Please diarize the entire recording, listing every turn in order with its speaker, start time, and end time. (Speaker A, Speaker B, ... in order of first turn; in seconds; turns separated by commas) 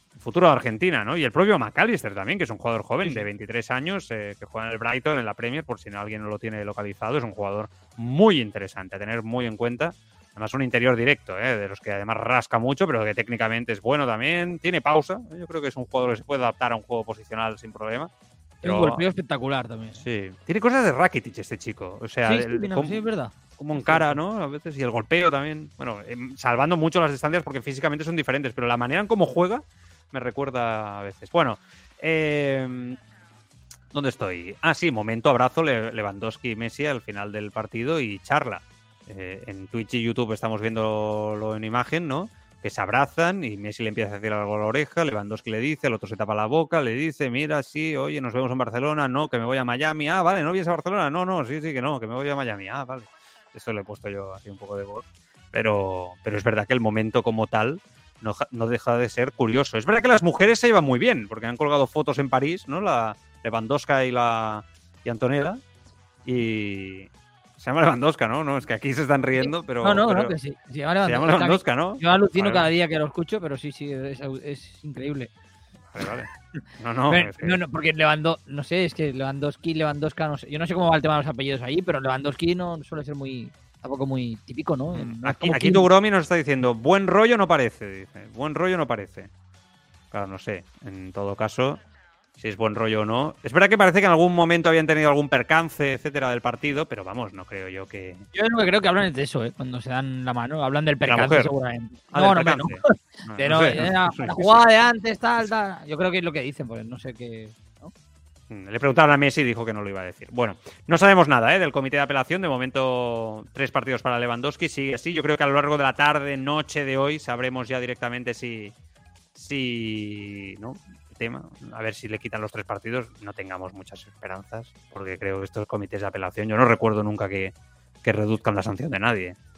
Speaker A: 0.2-18.1, Speaker A: 18.6-19.0, Speaker B: 18.6-20.0, Speaker A: 20.0-23.0, Speaker B: 22.2-24.2, Speaker A: 23.5-33.0, Speaker A: 33.9-65.6, Speaker A: 66.2-70.3, Speaker B: 69.4-75.3, Speaker A: 71.0-72.7, Speaker A: 75.9-77.6, Speaker B: 76.5-85.8, Speaker A: 84.9-89.3, Speaker A: 90.1-91.8, Speaker A: 92.4-98.2, Speaker B: 98.3-107.9, Speaker A: 101.0-101.5, Speaker A: 102.1-104.6, Speaker A: 108.5-118.7, Speaker A: 119.3-129.3